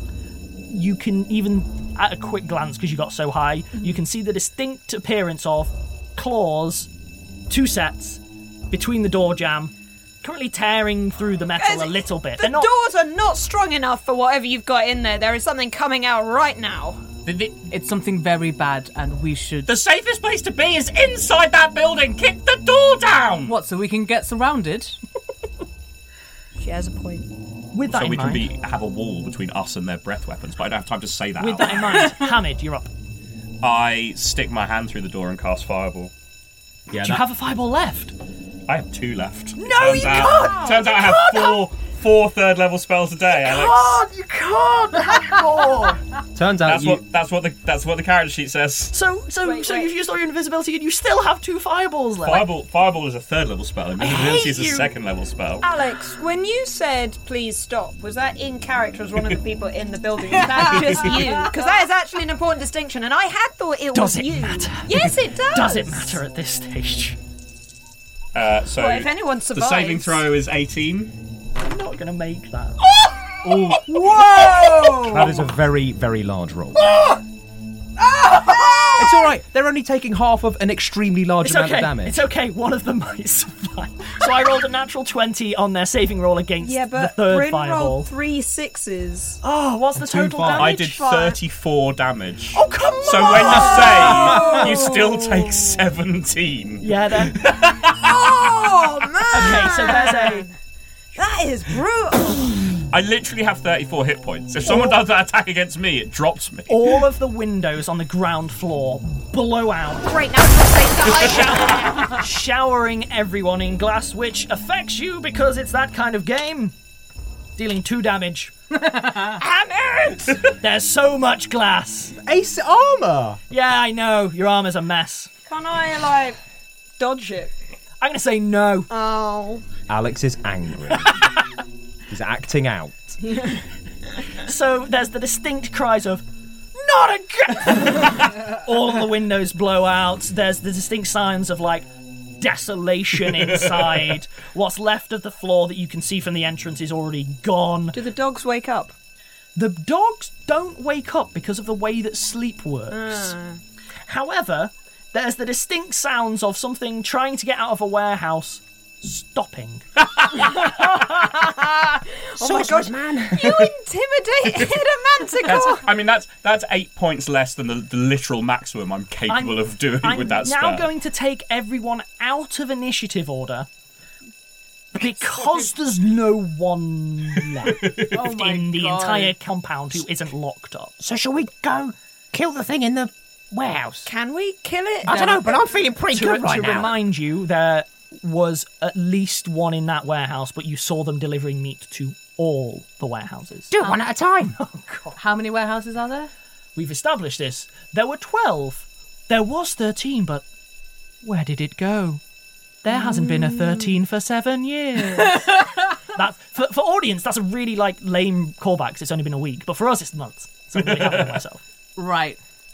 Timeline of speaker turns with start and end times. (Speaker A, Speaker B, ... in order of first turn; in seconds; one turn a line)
Speaker A: 0.7-6.9
Speaker A: 7.5-12.7
Speaker B: 11.6-17.0
Speaker C: 17.2-17.6
Speaker D: 17.7-19.7
Speaker C: 19.6-23.5
Speaker D: 23.5-25.0
Speaker B: 26.6-27.3
Speaker A: 27.7-28.5
Speaker C: 27.8-32.1
Speaker A: 31.4-32.9
Speaker C: 33.6-36.1
Speaker E: 36.9-37.2
Speaker A: 37.0-38.1
Speaker C: 38.7-44.0
Speaker A: 39.5-41.6
Speaker B: 40.4-40.7
Speaker A: 43.3-46.0
Speaker E: 46.3-47.0
Speaker C: 46.6-48.9
Speaker A: 48.9-52.5
Speaker B: 49.4-49.9
Speaker C: 52.2-55.6
Speaker A: 54.0-54.9
Speaker B: 55.6-66.2
Speaker A: 63.9-67.2
Speaker C: 68.3-71.1
Speaker B: 68.7-70.3
Speaker A: 71.6-72.8
Speaker E: 73.5-76.9
Speaker B: 74.0-75.2
Speaker B: 78.3-79.2
Speaker E: 79.0-82.2
Speaker A: 81.4-88.1
Speaker B: 86.6-89.4
Speaker A: 89.4-90.8
Speaker E: 90.1-90.6
Speaker B: 90.1-91.4
Speaker C: 90.5-98.9
Speaker A: 92.5-94.1
Speaker B: 93.1-95.5
Speaker A: 96.8-97.4
Speaker B: 98.0-100.5
Speaker A: 99.3-100.5
Speaker B: 101.1-102.7
Speaker C: 102.9-107.0
Speaker A: 106.7-110.2
Speaker B: 110.0-112.2
Speaker A: 111.1-116.7
Speaker A: 117.5-118.5
Speaker B: 119.4-120.3
Speaker A: 120.5-122.2
Speaker E: 122.2-123.4
Speaker A: 123.5-125.3
Speaker B: 125.5-126.4
Speaker B: 127.0-127.5
Speaker A: 128.0-128.9
Speaker B: 128.9-129.6
Speaker E: 129.9-131.1
Speaker E: 132.1-133.1
Speaker A: 134.4-136.2
Speaker A: 136.8-141.9
Speaker A: 142.4-148.0
Speaker C: 143.5-144.0
Speaker B: 147.9-148.9
Speaker A: 149.6-153.3
Speaker B: 152.9-153.6
Speaker A: 154.1-159.8
Speaker B: 160.6-165.9
Speaker F: 162.4-163.5
Speaker C: 165.4-170.9
Speaker A: 169.3-173.7
Speaker A: 174.9-180.9
Speaker C: 177.6-178.3
Speaker D: 178.1-179.3
Speaker F: 181.0-184.1
Speaker B: 184.0-185.4
Speaker F: 185.0-186.9
Speaker D: 185.1-185.6
Speaker A: 186.1-193.7
Speaker F: 193.7-194.6
Speaker A: 194.6-195.1
Speaker D: 195.1-196.3
Speaker A: 196.8-200.4
Speaker A: 201.2-202.2
Speaker A: 202.8-205.6
Speaker D: 205.2-205.5
Speaker A: 206.1-211.6
Speaker C: 210.8-211.4
Speaker D: 211.9-212.4